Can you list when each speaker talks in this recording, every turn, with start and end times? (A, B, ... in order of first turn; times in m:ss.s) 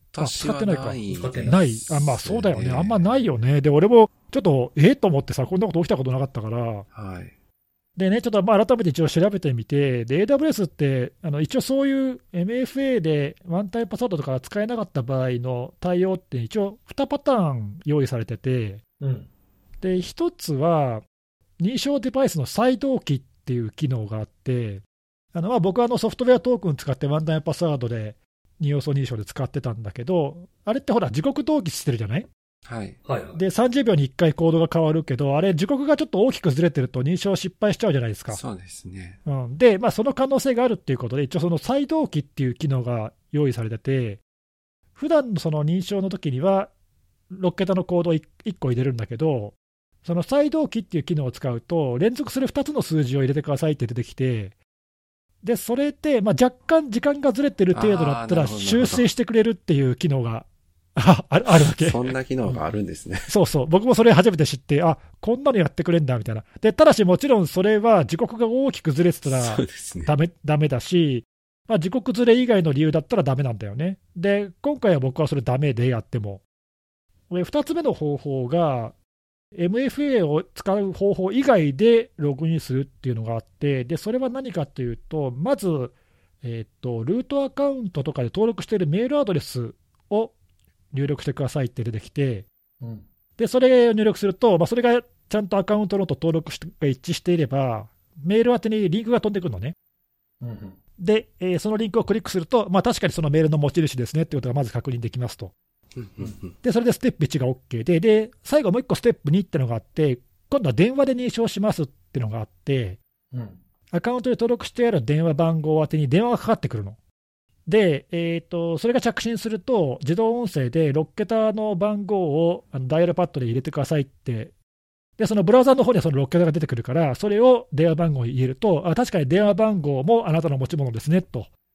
0:00.1-0:03.2 A
0:00.2-0:06.9 B
0:01.1-0:01.6 C
0:06.9-0:07.3 A
0:08.0-0:18.8 B
0:19.0-0:19.3 C
0:19.8-0:21.0 B
0:21.6-0:24.8 B
0:25.3-0:32.3 B
0:32.6-0:33.0 A
0:33.0-0:33.4 C
0:33.4-0:38.4 B
0:38.3-0:39.2 A
0:39.3-0:44.2 B
0:45.0-0:46.7 B
0:47.3-0:54.6 B
0:55.4-1:02.6 B
0:57.7-0:59.1 A
1:01.5-1:03.3 A
1:03.3-1:16.4 B
1:09.3-1:10.1 A
1:17.3-1:19.0 B
1:19.6-1:30.3 B
1:30.9-1:32.5 B
1:33.4-1:39.7 B
1:40.4-1:40.8 C
1:41.0-1:45.5 B
1:46.0-1:46.5 A
1:46.6-1:53.0 B
1:53.3-1:53.6 C
1:53.9-1:57.0 B
1:57.7-2:04.5 B
2:05.2-2:11.5 B